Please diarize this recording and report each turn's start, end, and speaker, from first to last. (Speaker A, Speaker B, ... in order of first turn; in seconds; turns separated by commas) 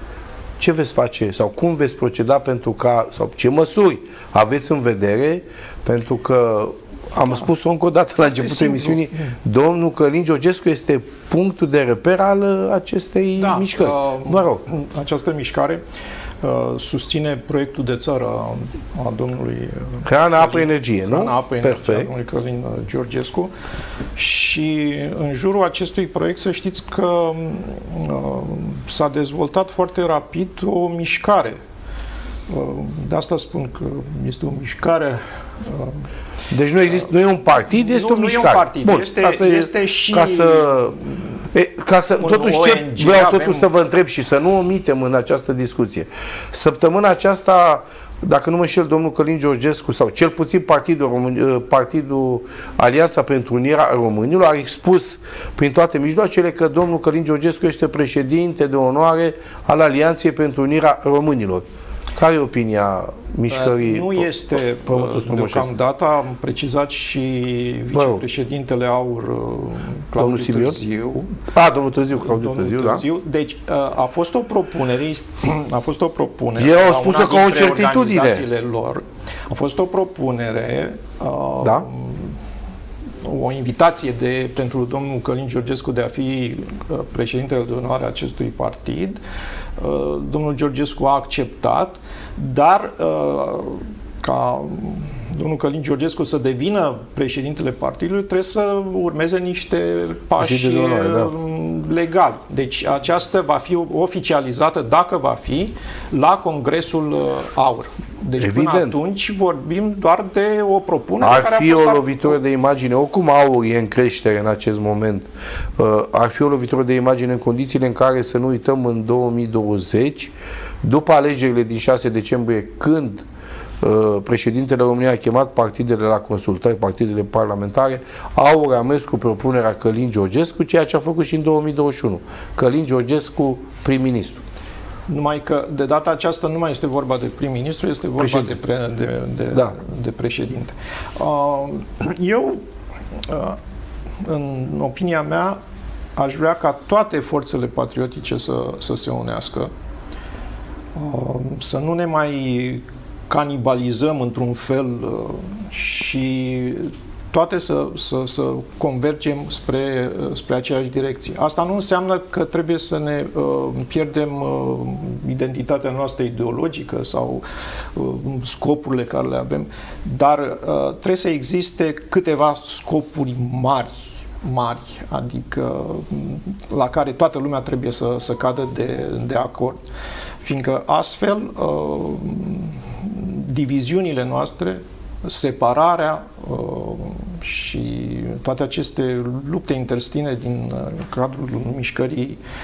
Speaker A: 0.6-14.6, Speaker B: 8.4-9.1, Speaker B: 13.4-15.8, Speaker B: 16.4-23.5, Speaker A: 20.0-22.1, Speaker B: 24.1-31.6, Speaker B: 32.5-36.0, Speaker A: 36.5-41.0, Speaker B: 37.6-40.9, Speaker A: 41.5-64.3, Speaker B: 42.2-43.6, Speaker B: 63.5-71.4, Speaker A: 64.8-65.8, Speaker A: 67.9-68.2, Speaker A: 70.2-70.8, Speaker A: 71.5-73.0, Speaker B: 72.2-82.3, Speaker A: 76.6-78.4, Speaker A: 81.6-81.9, Speaker B: 83.2-89.2, Speaker B: 89.8-112.3, Speaker A: 100.4-101.3, Speaker A: 108.4-109.0, Speaker A: 111.2-123.2, Speaker A: 123.8-134.4, Speaker B: 135.1-142.6, Speaker A: 138.2-138.6, Speaker B: 143.2-143.6, Speaker B: 144.2-145.6, Speaker B: 146.2-149.7, Speaker B: 150.9-167.4, Speaker B: 167.9-179.8, Speaker B: 180.4-192.4